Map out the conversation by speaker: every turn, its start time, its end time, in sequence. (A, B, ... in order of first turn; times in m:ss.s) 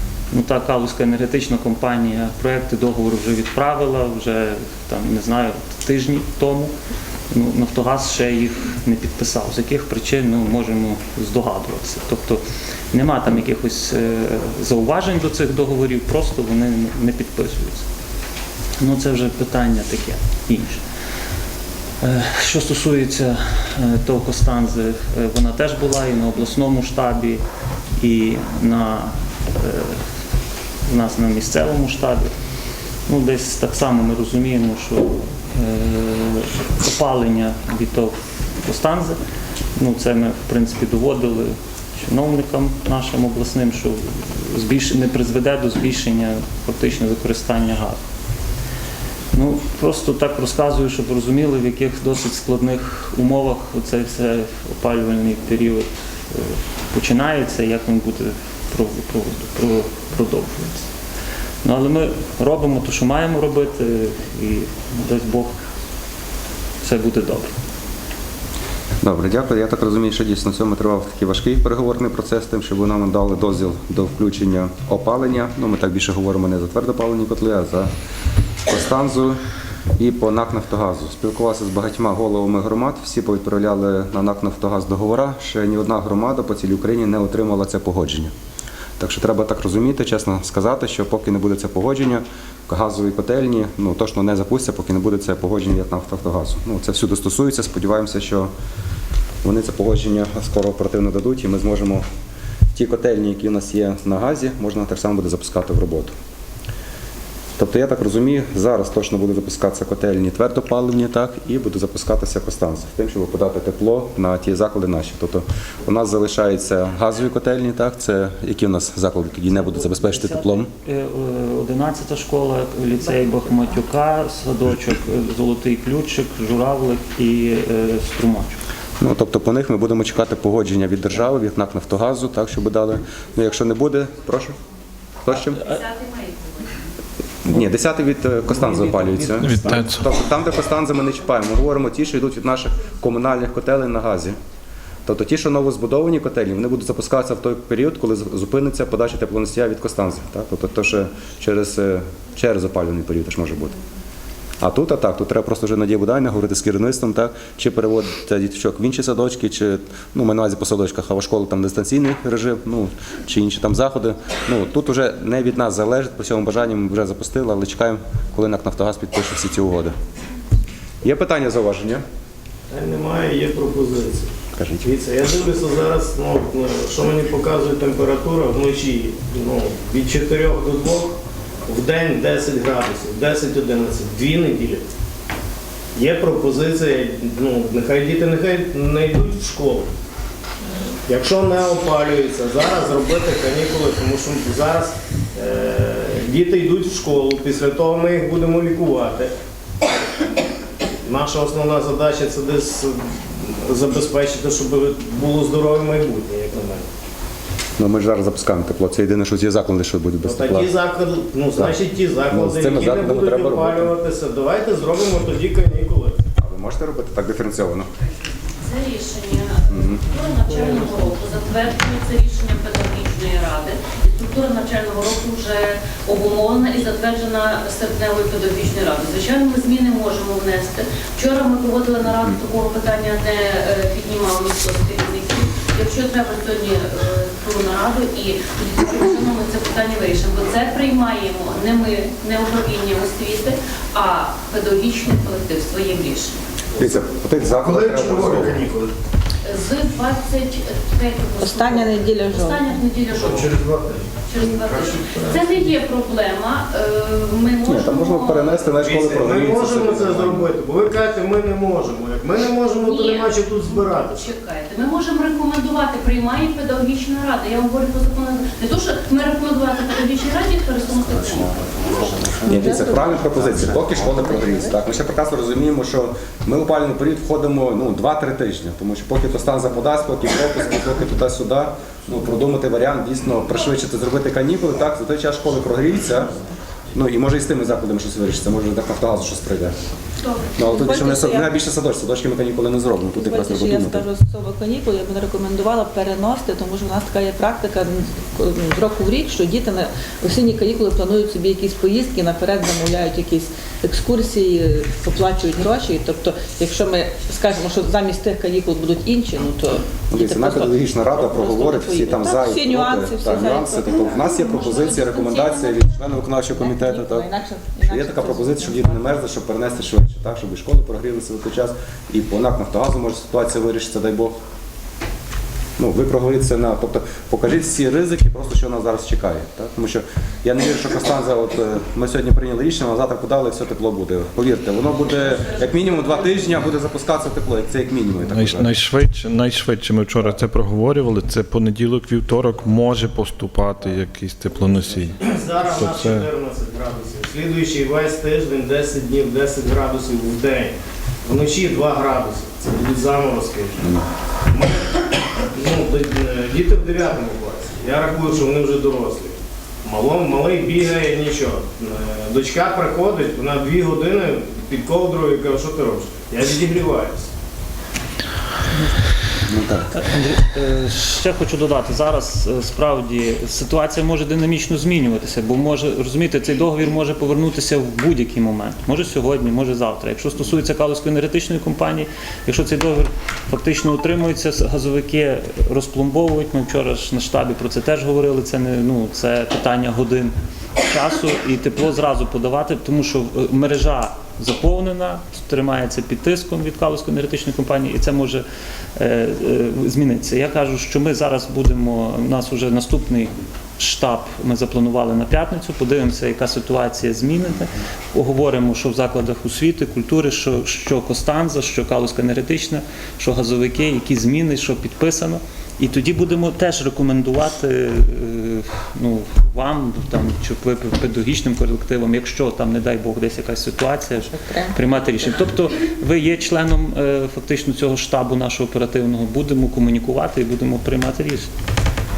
0:00.3-0:06.7 A
0:07.3-0:17.8 A
0:18.8-0:20.8 A
0:22.0-0:27.4 A
0:28.0-0:30.1 A
0:30.8-0:32.3 A
0:33.0-0:39.2 A
0:39.8-0:48.0 A
0:49.3-1:00.9 A
1:01.6-1:05.5 A
1:06.8-1:07.5 A
1:09.0-1:17.9 B
1:18.7-1:19.4 B
1:20.0-1:28.3 B
1:29.0-1:38.5 B
1:39.4-1:42.0 B
1:42.7-1:46.1 B
1:47.6-2:00.7 B
1:59.6-2:08.6 A
2:09.0-2:14.6 B
2:15.2-2:15.6 B
2:15.5-2:16.8 C
2:17.4-2:24.4 B
2:18.5-2:19.8 D
2:19.4-2:20.1 E
2:25.0-2:33.7 B
2:34.6-2:49.9 B
2:51.0-2:52.0 B
2:52.7-2:54.3 D
2:54.5-2:54.9 B
2:54.8-3:04.8 D
3:05.9-3:09.9 D
3:11.0-3:19.3 D
3:21.0-3:26.9 D
3:27.8-3:30.7 B
3:30.2-3:36.2 D
3:31.5-3:34.0 B
3:36.4-3:37.9 B
3:38.6-4:06.4 C
3:39.7-3:40.0 B
3:40.5-3:40.8 D
4:06.8-4:08.7 B
4:07.5-4:08.9 D
4:09.4-4:13.7 C
4:11.4-4:12.6 F
4:13.1-4:15.6 D
4:14.2-4:18.8 C
4:17.6-4:20.5 B
4:18.8-4:24.2 D
4:22.7-4:32.1 C
4:32.2-4:34.8 F
4:32.4-4:46.4 B
4:46.9-4:49.7 B
4:50.6-4:54.1 B
4:50.6-4:51.5 F
4:53.1-5:19.2 F
5:10.1-5:24.3 B
5:25.8-5:38.7 B
5:38.3-5:46.3 E
5:45.2-6:07.3 D
6:09.5-6:09.9 B
6:09.9-6:30.3 A
6:30.8-6:38.4 A
6:39.0-7:11.5 A
7:04.3-7:05.2 F